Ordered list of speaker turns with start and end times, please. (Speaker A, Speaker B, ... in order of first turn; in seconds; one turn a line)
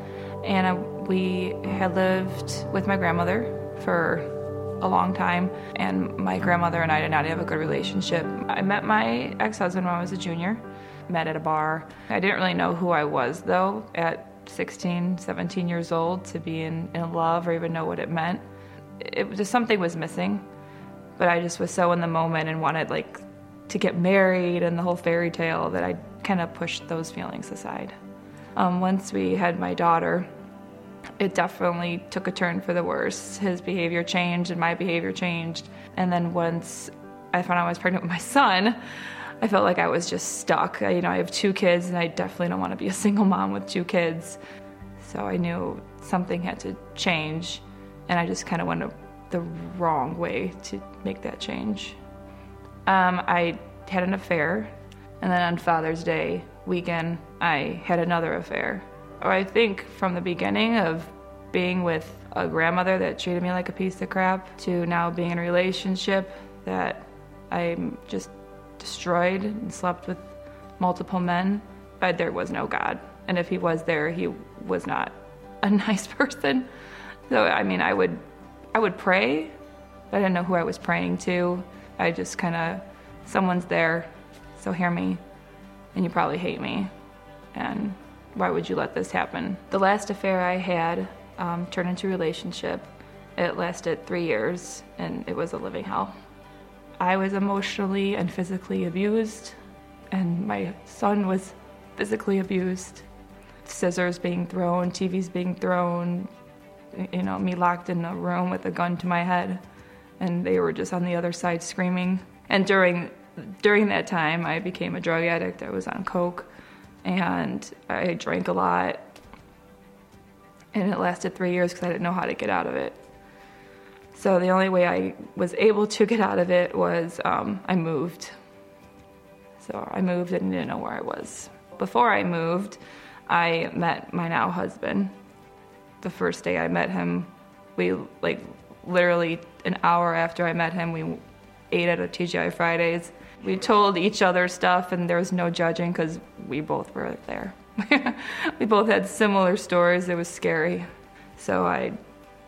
Speaker A: 0.4-18.4
Speaker A: 19.0-20.4
Speaker A: 21.2-27.9
Speaker A: 28.6-30.3
Speaker A: 31.2-38.8
Speaker A: 39.4-44.4
Speaker A: 45.0-52.0
Speaker A: 52.9-76.7
Speaker A: 77.3-78.2
Speaker A: 78.7-79.5
Speaker A: 80.1-85.2
Speaker A: 85.9-86.9
Speaker A: 87.5-96.1
Speaker A: 97.0-99.6
Speaker A: 100.1-103.0
Speaker A: 103.6-106.3
Speaker A: 106.9-109.6
Speaker A: 110.2-116.5
Speaker A: 117.0-119.1
Speaker A: 120.7-123.0
Speaker A: 124.1-128.3
Speaker A: 129.6-135.1
Speaker A: 136.0-152.0